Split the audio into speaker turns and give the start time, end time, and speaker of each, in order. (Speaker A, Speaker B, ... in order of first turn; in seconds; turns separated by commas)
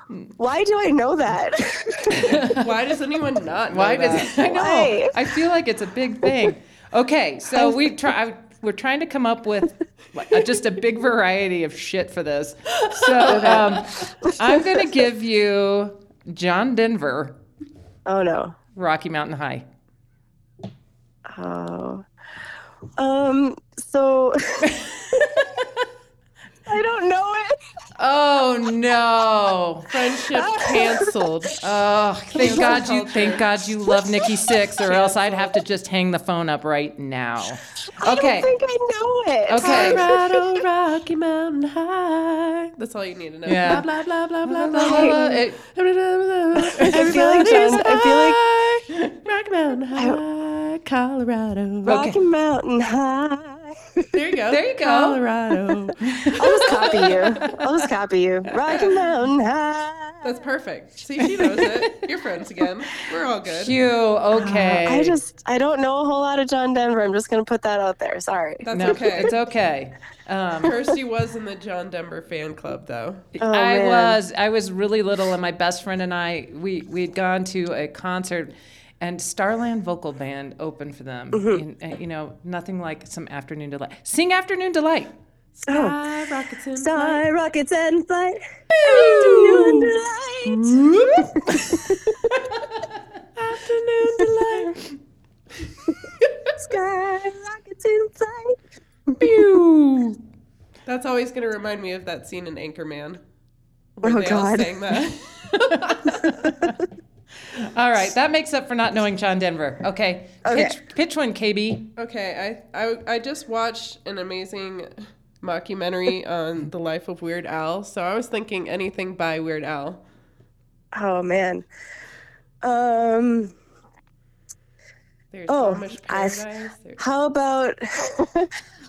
Speaker A: 0.4-2.4, Speaker B: 2.1-2.7, Speaker C: 2.3-4.5, Speaker B: 3.7-17.4, Speaker A: 4.4-5.3, Speaker A: 7.5-7.8, Speaker A: 13.3-14.9, Speaker A: 18.1-18.6, Speaker B: 18.7-19.6, Speaker A: 21.3-22.0, Speaker A: 23.0-25.4, Speaker A: 26.7-27.6, Speaker B: 28.0-30.0, Speaker C: 29.9-31.6, Speaker A: 30.3-31.1, Speaker B: 31.6-38.5, Speaker C: 32.3-33.5, Speaker A: 32.5-32.7, Speaker C: 34.9-35.5, Speaker A: 38.0-40.6, Speaker B: 39.5-40.1, Speaker C: 39.6-52.0, Speaker B: 43.5-43.9, Speaker B: 44.4-45.6, Speaker A: 44.8-45.1, Speaker A: 46.7-48.4, Speaker A: 51.8-54.1, Speaker B: 51.9-52.2, Speaker C: 54.1-57.3, Speaker B: 54.5-55.2, Speaker B: 56.1-57.8, Speaker A: 56.4-60.4, Speaker C: 58.7-59.0, Speaker C: 60.2-63.8, Speaker B: 61.5-62.0, Speaker B: 63.6-65.2, Speaker A: 64.3-69.3, Speaker C: 68.6-69.3, Speaker B: 68.7-70.8, Speaker C: 70.6-73.2, Speaker B: 73.3-85.1, Speaker A: 73.4-74.2, Speaker A: 81.3-81.6, Speaker C: 85.5-87.2, Speaker A: 85.7-86.0, Speaker A: 86.8-92.3, Speaker C: 88.7-91.7, Speaker C: 93.3-94.8, Speaker A: 96.6-98.6, Speaker C: 99.5-100.2, Speaker C: 100.8-103.2, Speaker C: 104.0-106.3, Speaker A: 104.0-104.8, Speaker A: 106.4-106.7, Speaker B: 107.5-111.9, Speaker A: 110.4-110.8, Speaker C: 112.0-120.0, Speaker A: 120.9-121.7, Speaker A: 122.6-123.5, Speaker C: 125.3-127.0, Speaker A: 125.5-126.4, Speaker A: 127.0-128.5